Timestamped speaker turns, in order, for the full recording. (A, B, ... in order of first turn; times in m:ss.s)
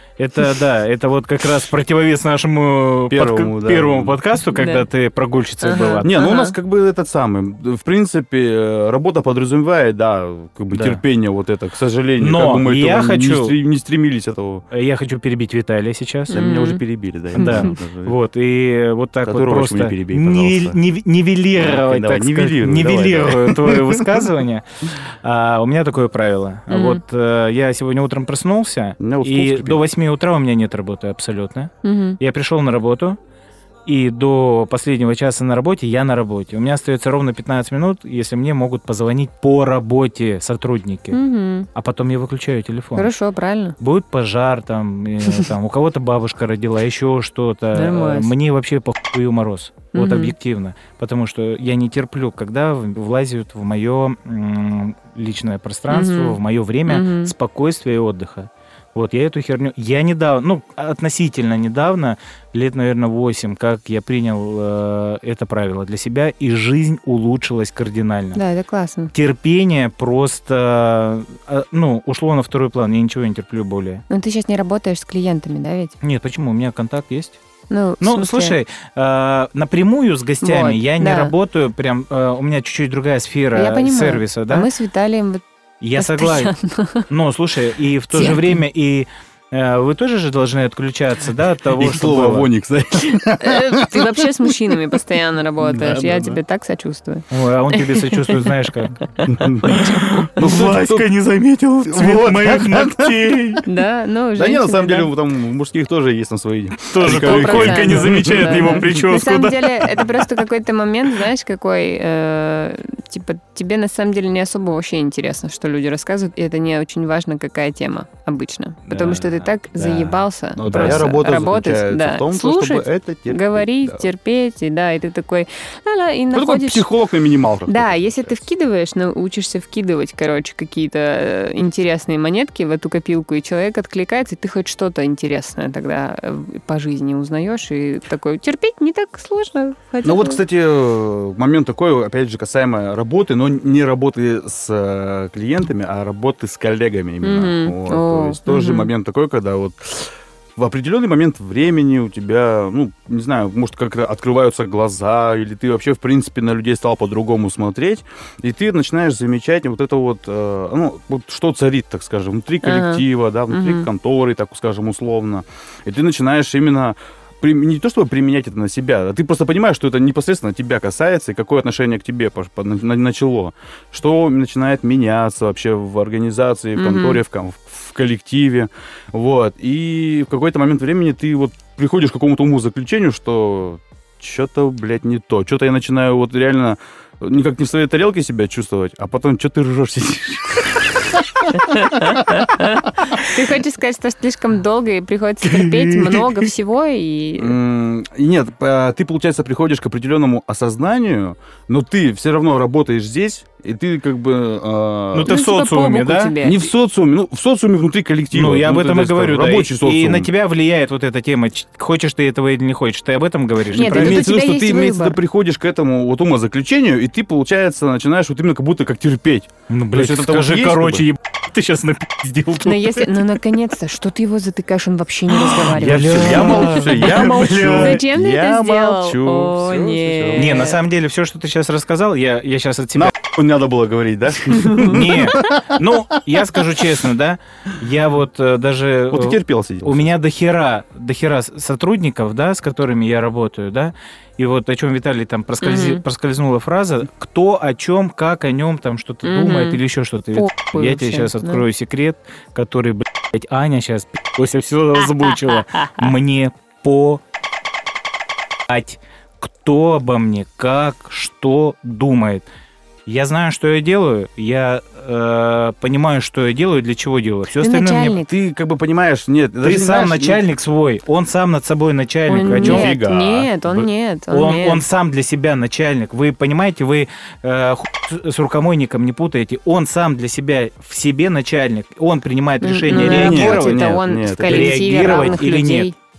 0:00.2-0:06.1 A
0:03.1-0:04.2 B
0:04.5-0:04.8 C
0:05.6-0:06.5 C
0:06.0-0:14.6 B
0:10.7-0:11.0 A
0:12.2-0:13.6 A
0:14.7-0:16.4 A
0:16.3-0:18.2 B
0:16.3-0:16.8 C
0:17.3-0:17.7 C
0:17.3-0:33.2 A
0:19.2-0:20.8 B
0:21.6-0:24.2 B
0:26.7-0:27.0 C
0:29.0-0:29.8 B
0:31.8-0:32.2 C
0:33.8-0:41.2 A
0:41.1-0:41.7 C
0:41.7-0:43.1 A
0:42.9-0:43.8 C
0:43.8-1:08.4 A
0:47.7-0:48.3 C
0:49.9-0:50.3 C
0:55.9-0:57.3 C
1:08.3-1:09.1 C
1:09.1-1:14.0 A
1:14.1-1:16.0 C
1:16.0-1:17.4 A
1:17.7-1:18.6 C
1:18.0-1:24.7 A
1:20.4-1:21.3 C
1:23.5-1:25.4 C
1:25.8-1:26.5 A
1:26.0-1:27.0 C
1:27.1-1:32.5 A
1:28.1-1:28.6 C
1:31.8-1:34.2 B
1:33.1-1:38.5 C
1:35.6-1:36.4 B
1:37.3-1:39.0 A
1:39.3-1:39.8 B
1:39.7-1:43.6 A
1:39.7-1:40.0 C
1:40.3-1:41.1 B
1:41.8-1:43.6 B
1:43.6-1:45.1 C
1:44.4-1:48.8 B
1:46.9-1:49.7 A
1:47.0-2:06.9 C
1:58.8-2:01.0 A
2:00.6-2:04.0 B
2:06.3-2:08.4 B
2:07.7-2:20.4 C
2:20.0-3:11.6 B
2:27.2-2:28.9 C
2:42.6-2:43.8 C
2:56.8-2:57.2 C
3:11.6-3:17.6 C
3:15.9-3:16.2 B
3:17.4-3:25.3 B
3:25.1-3:26.3 A
3:25.3-3:26.7 C
3:26.4-3:30.3 B
3:28.3-3:34.2 A
3:33.7-3:35.2 C
3:33.7-3:41.0 B
3:39.7-3:43.1 A
3:42.6-3:50.8 C
3:45.5-3:48.0 A
3:45.7-3:50.6 B
3:50.3-3:53.1 A
3:52.9-3:55.6 B
3:54.8-4:17.2 A
3:59.1-4:00.1 B
4:05.6-4:06.0 C
4:09.2-4:09.8 C
4:10.3-4:11.6 C
4:15.0-4:16.1 C
4:18.7-4:22.4 A
4:23.0-4:28.2 A
4:27.6-4:28.3 C
4:28.3-4:30.4 B
4:29.6-4:32.9 A
4:32.3-4:34.8 C
4:32.4-4:33.5 B
4:33.7-4:43.9 A
4:42.6-4:45.9 C
4:42.9-4:45.3 B
4:44.4-4:45.9 A